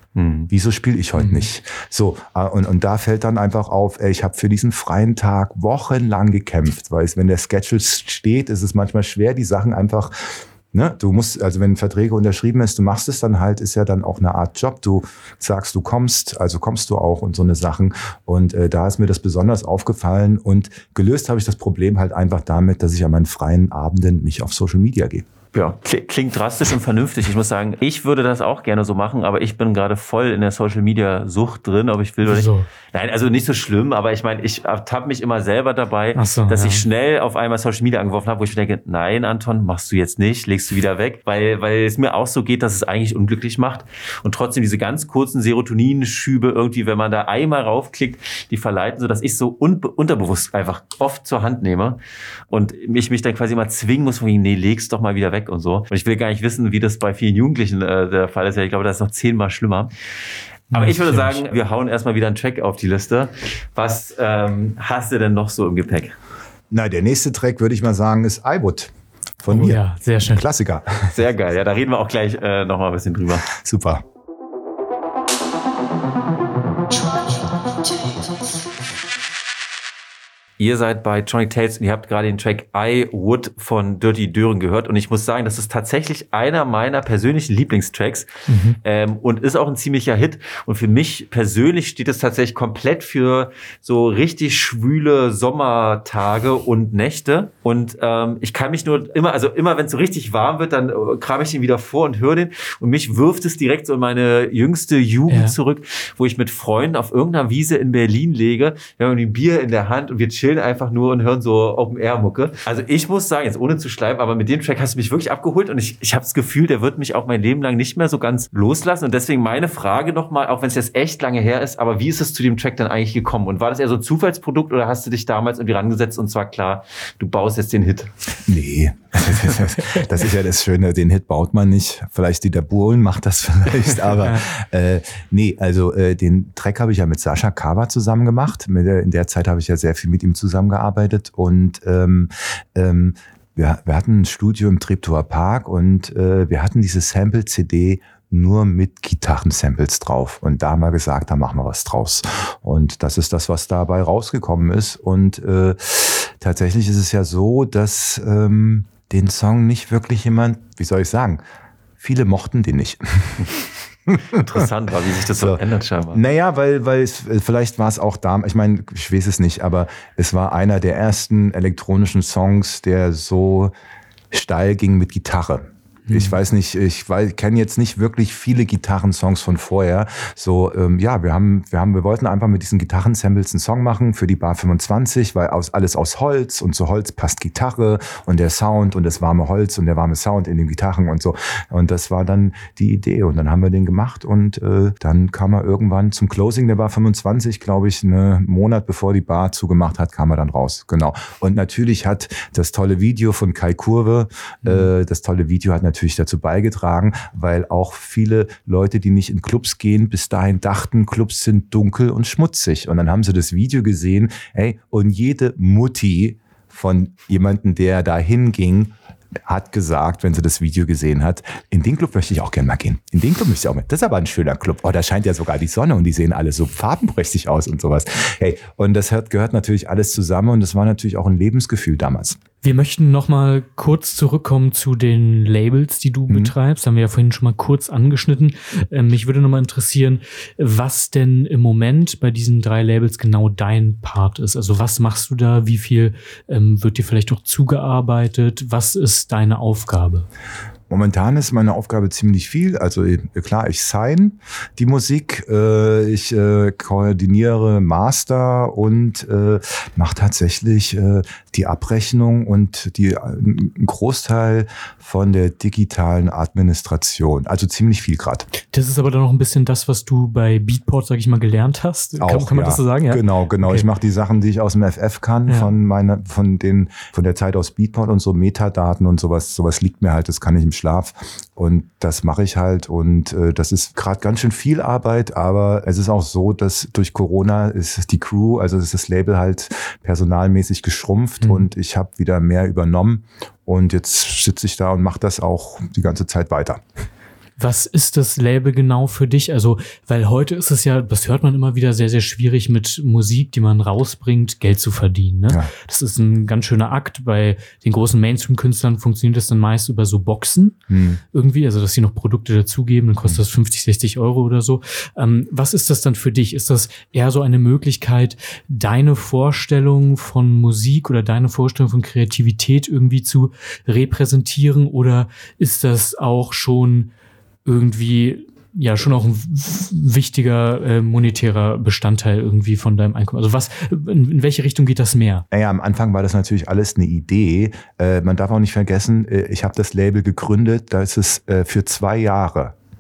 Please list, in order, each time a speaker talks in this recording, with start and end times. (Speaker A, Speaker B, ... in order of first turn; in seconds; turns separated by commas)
Speaker A: 0.1-0.5, Speaker B: 0.5-25.2, Speaker C: 1.2-1.4, Speaker A: 25.5-52.0, Speaker C: 32.2-32.7, Speaker C: 36.1-36.9, Speaker A: 52.5-59.9, Speaker A: 60.7-66.1, Speaker C: 60.7-61.4, Speaker B: 66.7-71.2, Speaker C: 69.5-70.5, Speaker A: 71.1-73.5, Speaker B: 73.5-74.0, Speaker A: 80.6-88.3, Speaker C: 88.5-88.8, Speaker A: 88.8-128.1, Speaker C: 105.3-105.5, Speaker B: 128.5-161.4, Speaker B: 162.0-163.6, Speaker B: 164.1-164.6, Speaker A: 164.3-166.2, Speaker B: 166.1-173.7, Speaker B: 174.3-232.4, Speaker C: 176.1-176.4, Speaker C: 232.6-250.2, Speaker B: 236.3-236.5, Speaker B: 250.9-268.5, Speaker C: 268.7-273.9, Speaker B: 272.2-296.8, Speaker C: 297.6-310.8, Speaker B: 310.9-311.2, Speaker C: 311.3-327.1, Speaker C: 327.6-335.4, Speaker B: 335.5-342.8